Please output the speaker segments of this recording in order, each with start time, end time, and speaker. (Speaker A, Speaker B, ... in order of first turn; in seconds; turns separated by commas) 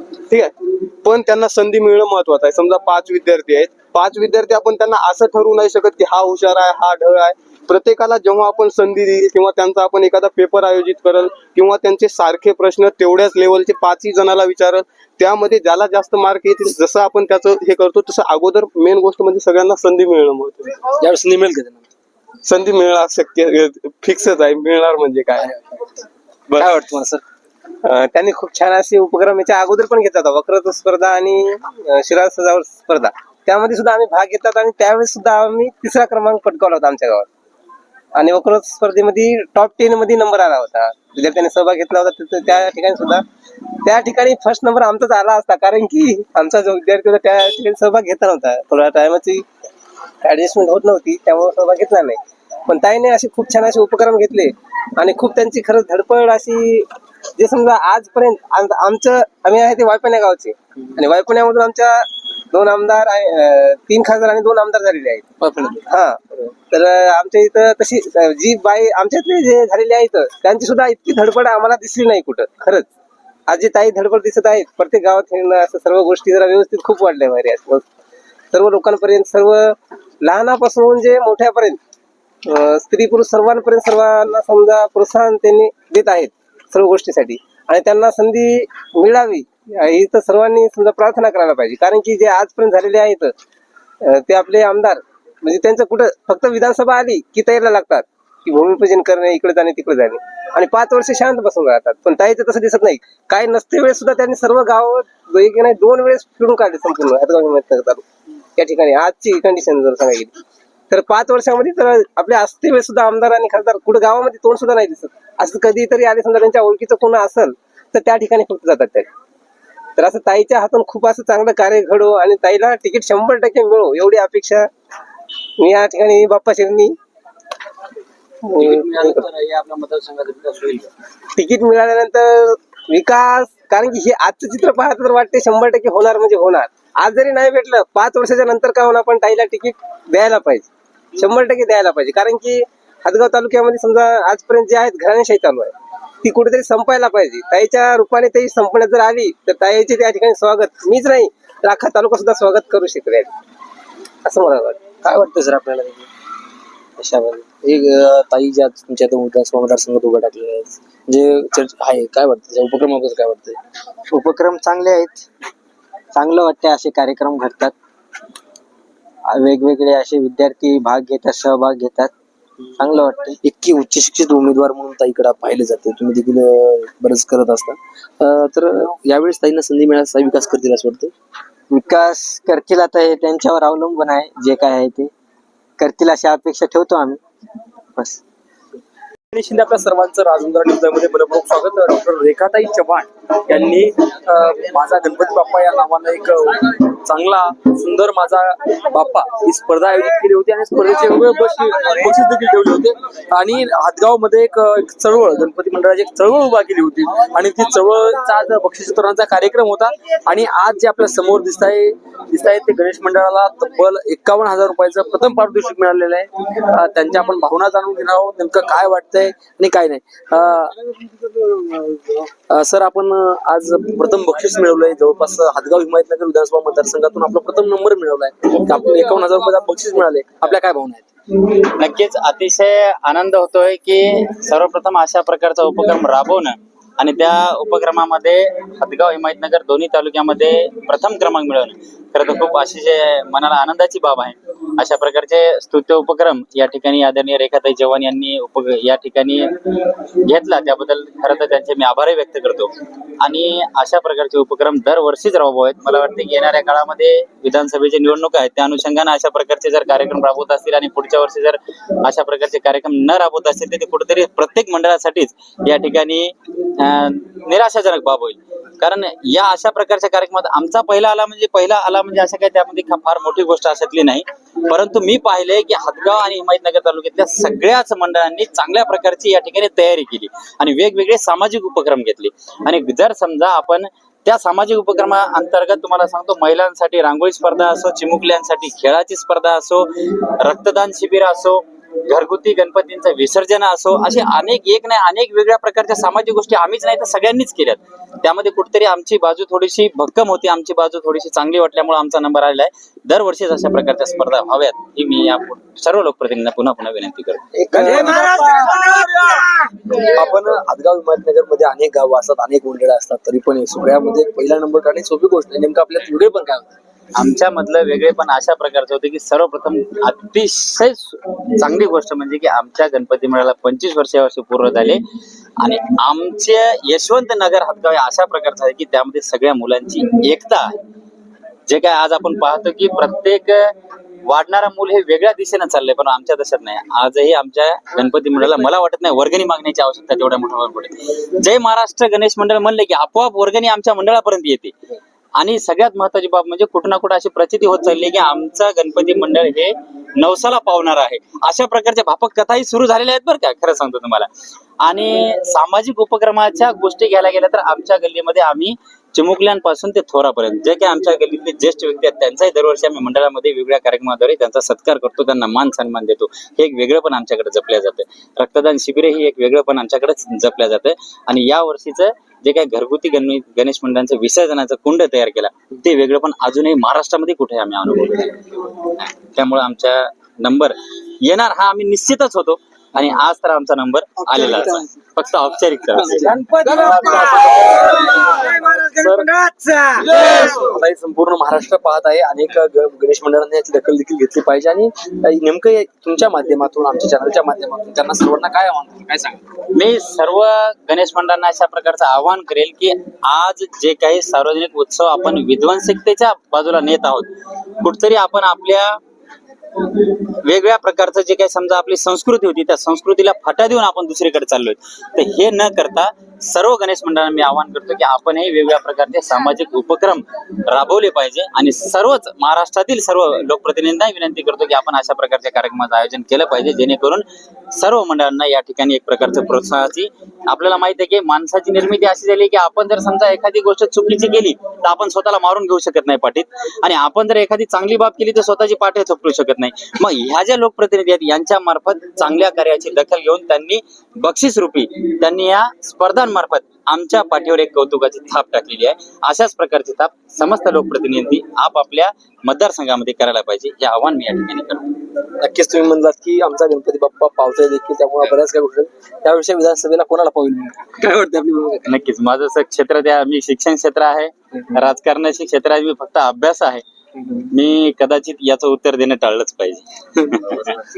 Speaker A: 0.3-20.8, Speaker B: 21.0-21.8, Speaker A: 22.4-25.5, Speaker B: 26.5-27.2, Speaker C: 27.8-37.3, Speaker C: 38.2-43.2, Speaker C: 43.8-49.5, Speaker C: 50.2-65.3, Speaker B: 65.4-65.8, Speaker C: 65.9-72.9, Speaker C: 73.5-77.9, Speaker C: 78.5-81.8, Speaker C: 82.5-93.3, Speaker C: 94.0-108.0, Speaker C: 108.6-110.3, Speaker C: 110.9-119.1, Speaker C: 120.0-124.7, Speaker C: 125.6-127.0, Speaker C: 128.5-129.3, Speaker C: 131.4-153.3, Speaker C: 154.2-154.9, Speaker B: 155.1-155.9, Speaker D: 157.0-157.5, Speaker B: 157.6-163.6, Speaker D: 164.1-165.3, Speaker D: 166.2-167.7, Speaker D: 169.3-172.1, Speaker D: 172.8-173.4, Speaker B: 173.4-181.1, Speaker D: 181.7-185.1, Speaker D: 185.8-187.2, Speaker B: 189.3-220.8, Speaker B: 222.5-231.1, Speaker E: 231.6-249.5, Speaker E: 250.2-307.5, Speaker B: 307.6-308.9, Speaker B: 309.9-316.7, Speaker E: 317.1-325.0, Speaker E: 325.6-330.8, Speaker E: 331.7-333.7, Speaker E: 334.2-344.8, Speaker E: 345.4-354.3, Speaker E: 354.8-386.4, Speaker B: 386.1-387.9, Speaker B: 388.9-389.4, Speaker B: 390.0-399.4, Speaker E: 399.7-409.0, Speaker E: 410.4-454.9, Speaker B: 455.4-461.3, Speaker E: 461.9-466.8, Speaker E: 467.5-470.7